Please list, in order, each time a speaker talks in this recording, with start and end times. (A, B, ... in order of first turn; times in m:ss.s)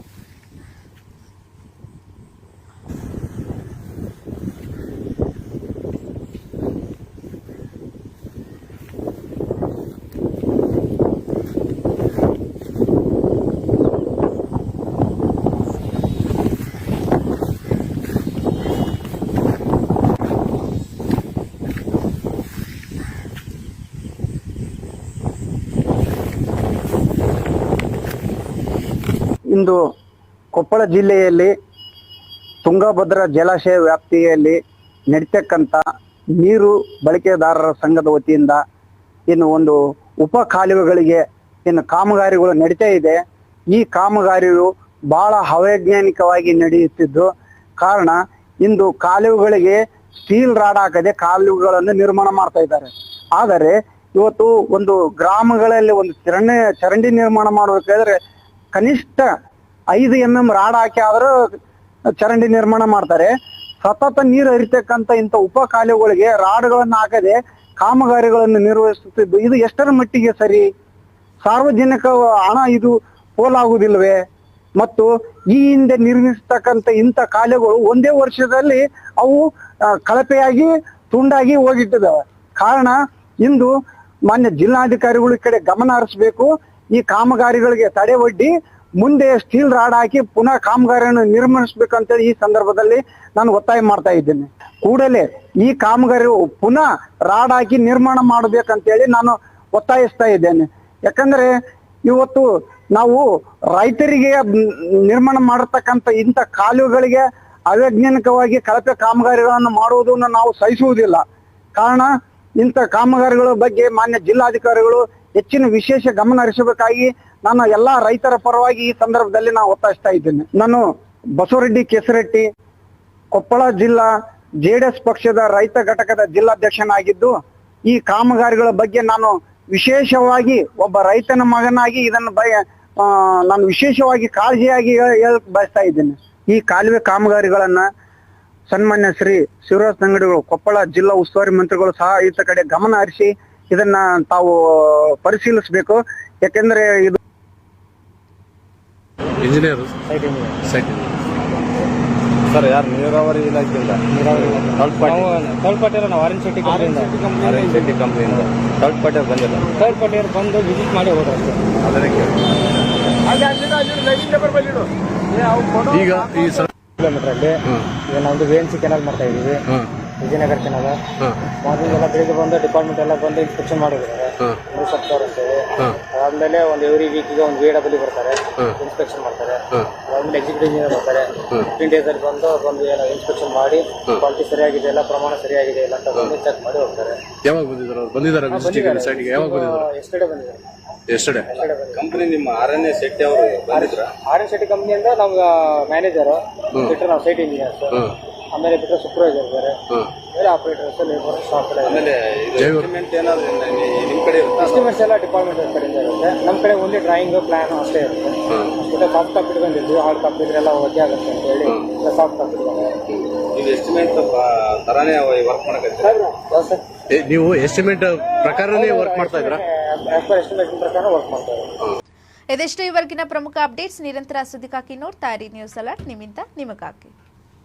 0:29.5-0:29.8 A
0:30.5-0:31.5 A
0:32.6-0:34.6 A
0:35.1-0:35.9 A
0:36.4-0:38.6 A
0:39.3-0:58.2 A
0:58.7-0:59.3 A
0:59.9-1:01.3 A
1:02.2-1:03.3 A
1:03.8-1:10.6 A
1:11.4-1:14.2 A
1:14.8-1:23.7 A
1:24.3-1:41.5 A
1:42.1-1:51.2 A
1:51.8-2:00.8 A
2:01.4-2:02.5 A
2:03.3-2:04.1 A
2:04.6-2:07.3 A
2:07.9-2:17.9 A
2:18.7-2:27.2 A
2:29.4-2:29.9 B
2:30.1-2:30.6 C
2:30.7-2:31.2 B
2:32.5-2:35.3 D
2:34.1-2:37.2 C
2:37.1-2:39.8 D
2:39.7-2:41.6 C
2:41.8-2:42.4 D
2:45.8-2:46.7 B
2:47.0-2:49.6 C
2:50.2-2:51.0 C
2:51.6-3:07.2 C
3:07.4-3:09.9 B
3:08.5-3:10.7 C
3:11.1-3:11.5 B
3:11.5-3:12.1 C
3:11.9-3:14.2 D
3:13.7-3:19.8 C
3:20.3-3:22.1 C
3:21.8-3:24.9 D
3:22.6-3:22.9 B
3:24.6-3:33.0 C
3:33.5-3:36.3 D
3:36.0-3:36.8 C
3:37.1-3:39.6 B
3:38.5-3:41.7 C
3:42.5-3:47.1 E